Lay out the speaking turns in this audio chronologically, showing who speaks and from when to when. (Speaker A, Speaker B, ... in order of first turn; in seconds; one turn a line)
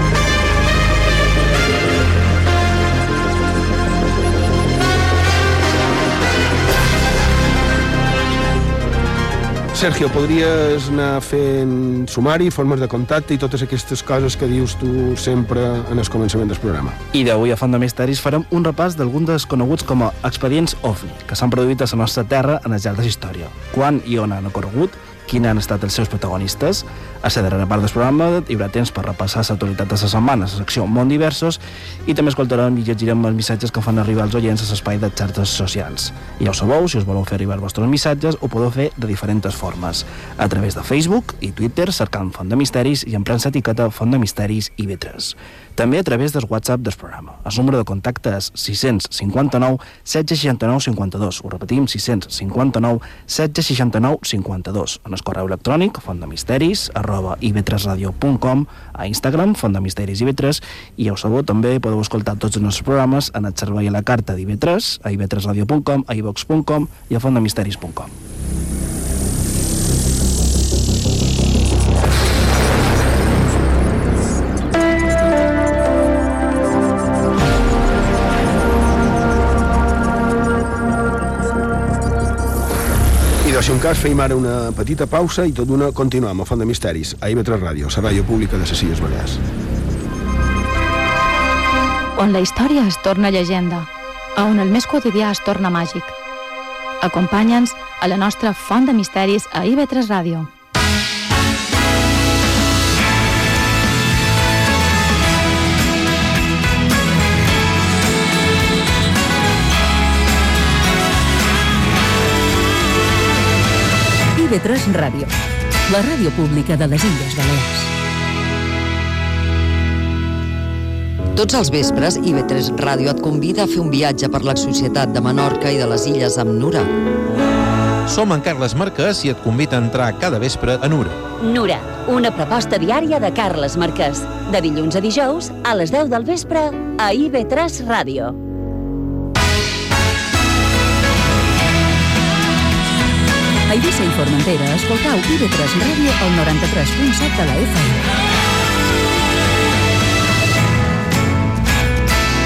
Speaker A: 9.7-17.0
Speaker B: 17.1-68.1
Speaker A: 83.4-89.4
Speaker C: 92.2-96.1
Speaker C: 97.0-100.5
Speaker D: 114.3-115.3
Speaker D: 115.9-117.9
Speaker E: 121.3-126.9
Speaker F: 128.1-131.2
Speaker G: 131.4-138.4
Speaker D: 143.7-148.0